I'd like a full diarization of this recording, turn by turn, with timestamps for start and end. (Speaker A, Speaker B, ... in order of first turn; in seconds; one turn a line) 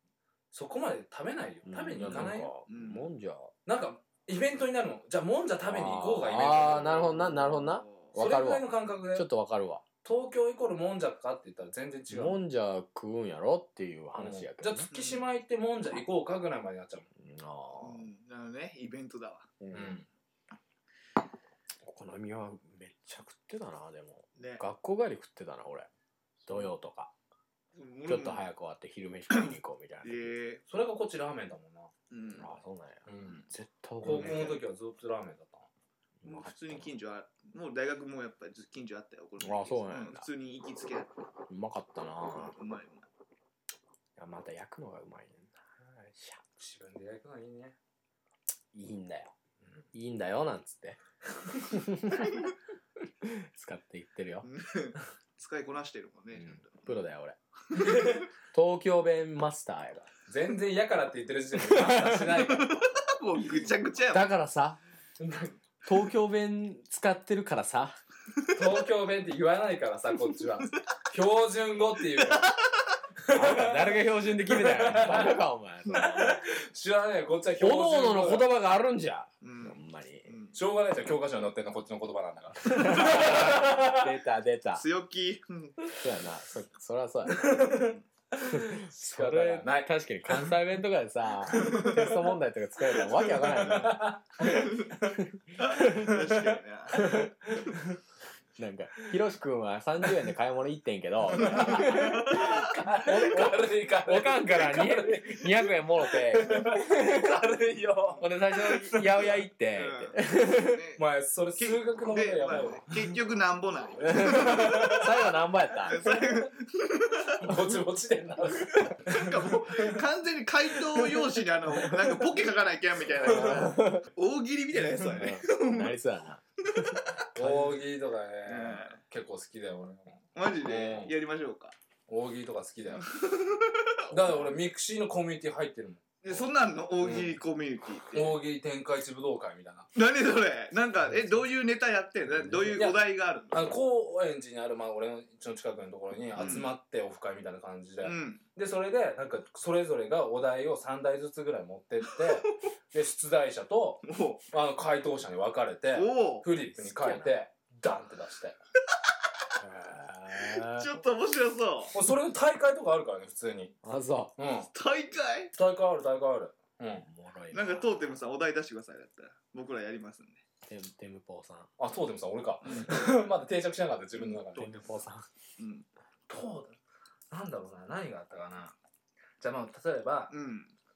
Speaker A: 0.5-2.5
Speaker B: 1.6-3.5
Speaker C: 2.7-3.0
Speaker A: 3.6-7.1
Speaker B: 5.6-9.8
Speaker C: 7.1-8.1
Speaker A: 8.2-9.3
Speaker A: 10.0-12.4
Speaker B: 12.1-14.9
Speaker A: 14.2-17.1
Speaker C: 14.9-15.2
Speaker B: 17.2-18.1
Speaker C: 17.8-19.5
Speaker B: 19.6-20.0
Speaker A: 19.7-20.1
Speaker B: 21.8-25.9
Speaker C: 24.4-24.6
Speaker B: 26.4-27.1
Speaker C: 27.7-28.4
Speaker B: 28.1-30.3
Speaker C: 29.3-30.6
Speaker A: 30.7-31.9
Speaker C: 32.1-32.5
Speaker B: 32.4-34.6
Speaker A: 33.1-33.4
Speaker A: 34.0-35.7
Speaker C: 34.0-34.6
Speaker B: 36.2-36.9
Speaker C: 36.2-41.1
Speaker B: 39.4-40.2
Speaker B: 41.5-42.5
Speaker C: 42.3-43.0
Speaker B: 44.1-46.4
Speaker A: 46.6-47.8
Speaker B: 48.7-49.3
Speaker B: 49.9-51.0
Speaker B: 51.5-52.5
Speaker B: 53.2-54.5
Speaker C: 54.4-56.9
Speaker B: 56.4-57.4
Speaker A: 57.8-58.2
Speaker B: 58.5-60.1
Speaker A: 60.2-62.9
Speaker B: 61.6-62.3
Speaker C: 62.5-64.3
Speaker B: 64.1-64.8
Speaker A: 65.2-65.5
Speaker B: 65.8-68.0
Speaker A: 68.5-72.5
Speaker C: 72.2-72.8
Speaker A: 73.2-78.5
Speaker B: 73.3-76.4
Speaker B: 77.6-80.3
Speaker C: 79.4-80.6
Speaker A: 80.5-84.1
Speaker B: 82.6-84.8
Speaker C: 83.0-83.4
Speaker C: 84.7-86.0
Speaker B: 85.9-87.7
Speaker A: 87.3-90.5
Speaker B: 88.4-94.1
Speaker A: 91.6-92.0
Speaker C: 91.6-91.9
Speaker A: 92.9-98.0
Speaker C: 94.4-94.9
Speaker B: 95.2-96.1
Speaker C: 95.6-97.2
Speaker B: 98.6-107.4
Speaker C: 101.3-102.7
Speaker A: 101.3-109.2
Speaker C: 108.0-108.3
Speaker B: 108.2-110.8
Speaker C: 109.8-111.0
Speaker A: 111.0-112.9
Speaker C: 111.6-115.3
Speaker B: 114.0-116.0
Speaker A: 114.1-115.1
Speaker C: 115.8-117.6
Speaker A: 116.0-116.5
Speaker A: 117.4-120.0
Speaker C: 119.1-125.9
Speaker A: 120.9-122.1
Speaker A: 123.2-123.7
Speaker B: 123.3-124.0
Speaker B: 124.9-127.8
Speaker C: 126.7-127.0
Speaker A: 127.3-131.1
Speaker C: 128.5-129.0
Speaker C: 130.3-131.7
Speaker A: 132.1-133.1
Speaker C: 133.0-134.3
Speaker A: 134.1-136.4
Speaker C: 136.2-138.4
Speaker A: 137.0-137.4
Speaker A: 138.1-139.9
Speaker C: 139.9-143.8
Speaker B: 142.5-142.8
Speaker A: 142.7-158.6
Speaker C: 146.3-146.7
Speaker C: 148.0-148.4
Speaker C: 154.0-154.4
Speaker C: 155.9-156.5
Speaker B: 156.8-157.3
Speaker B: 159.6-160.9
Speaker C: 160.5-161.9
Speaker A: 161.9-163.7
Speaker B: 163.8-164.3
Speaker A: 164.4-164.7
Speaker C: 164.7-165.5
Speaker A: 165.5-167.1
Speaker B: 167.0-168.1
Speaker C: 167.5-170.4
Speaker B: 170.7-171.7
Speaker A: 171.8-174.8
Speaker C: 172.6-173.2
Speaker C: 174.2-174.7
Speaker B: 174.6-175.2
Speaker C: 175.6-175.8
Speaker A: 176.3-176.8
Speaker A: 177.3-178.7
Speaker A: 179.4-180.3
Speaker C: 180.3-180.7